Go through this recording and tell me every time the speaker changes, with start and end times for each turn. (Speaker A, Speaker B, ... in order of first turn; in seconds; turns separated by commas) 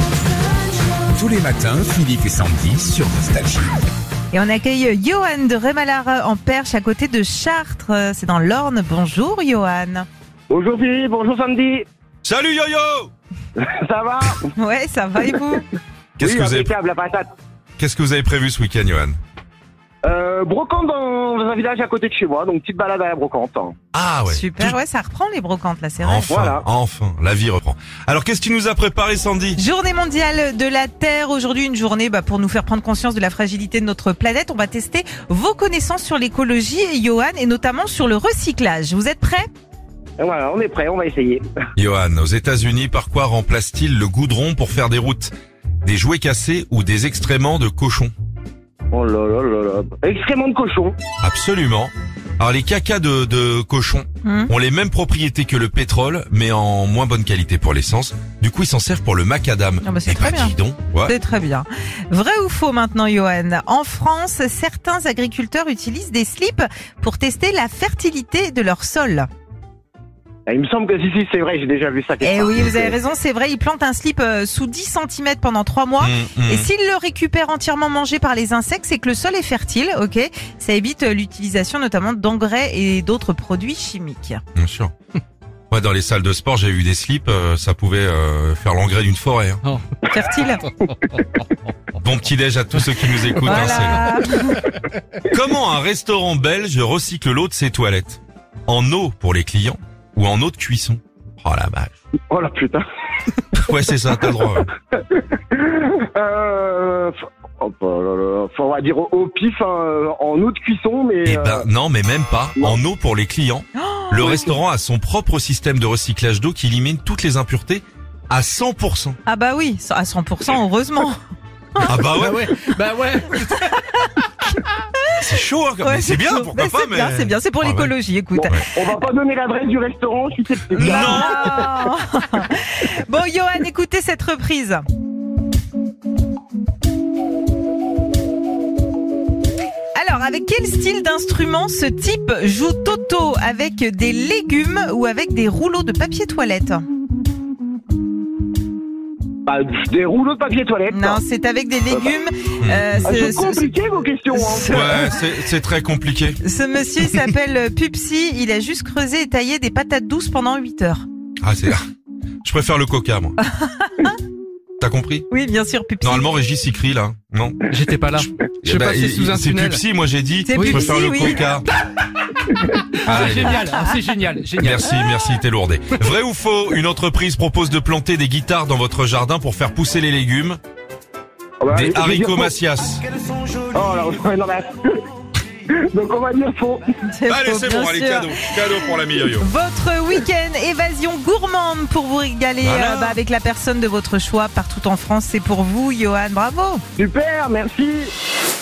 Speaker A: 1.1-3.7, Speaker B: 4.3-10.1, Speaker C: 10.5-11.9, Speaker D: 12.2-13.1, Speaker C: 13.6-14.4, Speaker B: 14.6-15.7, Speaker D: 16.2-16.7, Speaker C: 16.2-17.3, Speaker D: 17.8-19.2, Speaker C: 20.0-23.8, Speaker D: 23.9-24.8, Speaker B: 24.3-26.3, Speaker D: 26.0-29.6, Speaker C: 26.3-26.7, Speaker B: 29.6-39.5, Speaker C: 40.2-41.5, Speaker D: 41.8-45.3, Speaker D: 45.8-48.1, Speaker C: 48.9-51.0, Speaker D: 51.2-61.1, Speaker B: 54.2-54.5, Speaker B: 59.8-69.3, Speaker C: 70.5-72.9, Speaker B: 72.2-84.4, Speaker D: 76.0-76.7, Speaker D: 84.5-84.9, Speaker D: 85.7-89.6, Speaker B: 90.1-90.7, Speaker D: 92.0-94.1, Speaker B: 93.4-94.7, Speaker D: 95.3-101.9, Speaker C: 102.3-102.8, Speaker D: 103.5-104.7, Speaker C: 105.0-111.7, Speaker D: 111.3-119.2, Speaker B: 113.8-114.4, Speaker B: 119.3-121.2, Speaker B: 121.8-122.6, Speaker D: 121.8-122.5, Speaker E: 122.2-123.7, Speaker B: 123.3-125.2, Speaker D: 125.1-127.9, Speaker B: 125.8-128.6, Speaker C: 128.7-131.5, Speaker D: 130.8-131.4, Speaker B: 130.8-134.8, Speaker B: 139.9-146.8, Speaker C: 149.5-151.2, Speaker B: 150.9-153.7, Speaker D: 152.6-153.2, Speaker C: 153.1-154.8, Speaker B: 154.3-155.2, Speaker D: 154.7-156.4, Speaker B: 156.4-161.1, Speaker D: 161.4-161.8, Speaker D: 162.4-163.4, Speaker B: 163.4-164.2, Speaker D: 164.8-165.3, Speaker B: 165.3-166.3, Speaker D: 166.0-171.7, Speaker E: 167.7-169.8, Speaker B: 170.5-171.4, Speaker E: 170.6-170.9, Speaker E: 173.0-174.8, Speaker D: 173.1-173.7, Speaker B: 173.7-174.0, Speaker D: 174.6-180.6, Speaker C: 181.6-182.5, Speaker D: 181.7-183.1, Speaker C: 183.7-185.0, Speaker C: 185.7-186.8, Speaker B: 187.1-188.8, Speaker D: 187.3-189.5, Speaker B: 189.4-196.8, Speaker D: 192.6-193.2, Speaker C: 197.0-198.1